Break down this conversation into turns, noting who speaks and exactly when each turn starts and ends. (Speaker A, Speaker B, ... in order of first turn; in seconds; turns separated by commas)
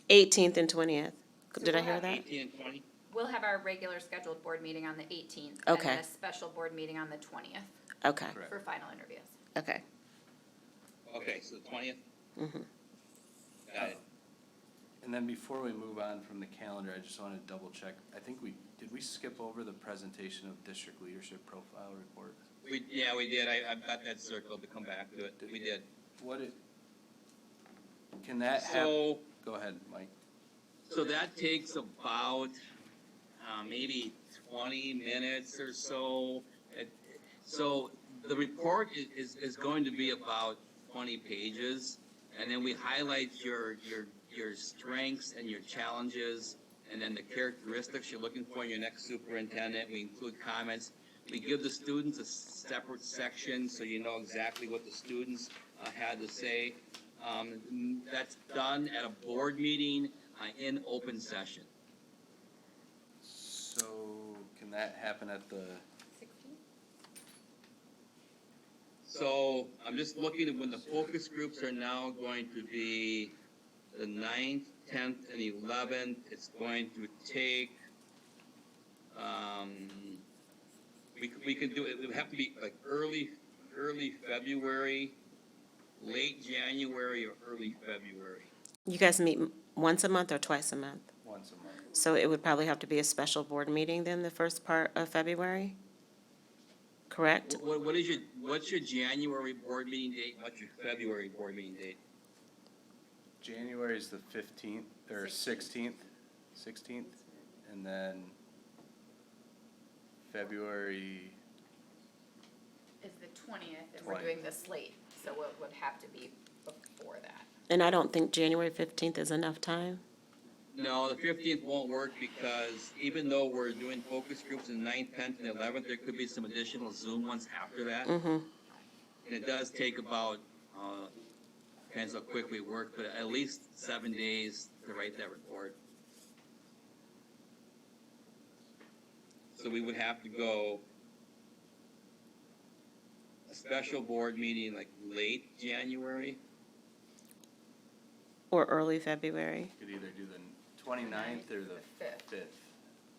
Speaker A: 0.1-2.2, Speaker B: 1.6-2.0, Speaker C: 1.9-2.8, Speaker B: 3.1-7.7, Speaker A: 5.7-6.0, Speaker A: 8.0-8.3, Speaker D: 8.3-8.6, Speaker B: 8.4-9.3, Speaker A: 9.6-9.8, Speaker C: 11.1-12.0, Speaker A: 12.4-12.7, Speaker C: 13.7-14.0, Speaker D: 13.8-14.0, Speaker D: 15.0-22.4, Speaker C: 22.6-25.9, Speaker D: 26.2-26.6, Speaker D: 28.2-30.1, Speaker C: 28.6-29.2, Speaker C: 30.9-32.6, Speaker C: 33.4-61.7, Speaker D: 63.2-65.8, Speaker B: 66.2-66.6, Speaker C: 69.0-73.3, Speaker C: 73.9-77.8, Speaker C: 79.1-80.2, Speaker C: 81.2-85.2, Speaker C: 86.0-88.5, Speaker A: 88.9-91.1, Speaker D: 91.2-92.0, Speaker A: 91.9-95.8, Speaker A: 97.1-97.6, Speaker C: 97.5-102.0, Speaker D: 103.4-108.4, Speaker B: 105.2-105.6, Speaker D: 110.2-111.4, Speaker B: 113.0-117.5, Speaker D: 114.0-114.3, Speaker A: 117.7-120.0, Speaker C: 120.7-128.1, Speaker A: 128.1-128.5, Speaker C: 129.2-131.1, Speaker C: 131.9-135.8, Speaker C: 139.5-140.8, Speaker C: 143.5-146.4, Speaker A: 148.5-149.7, Speaker D: 149.8-152.8, Speaker B: 151.0-152.2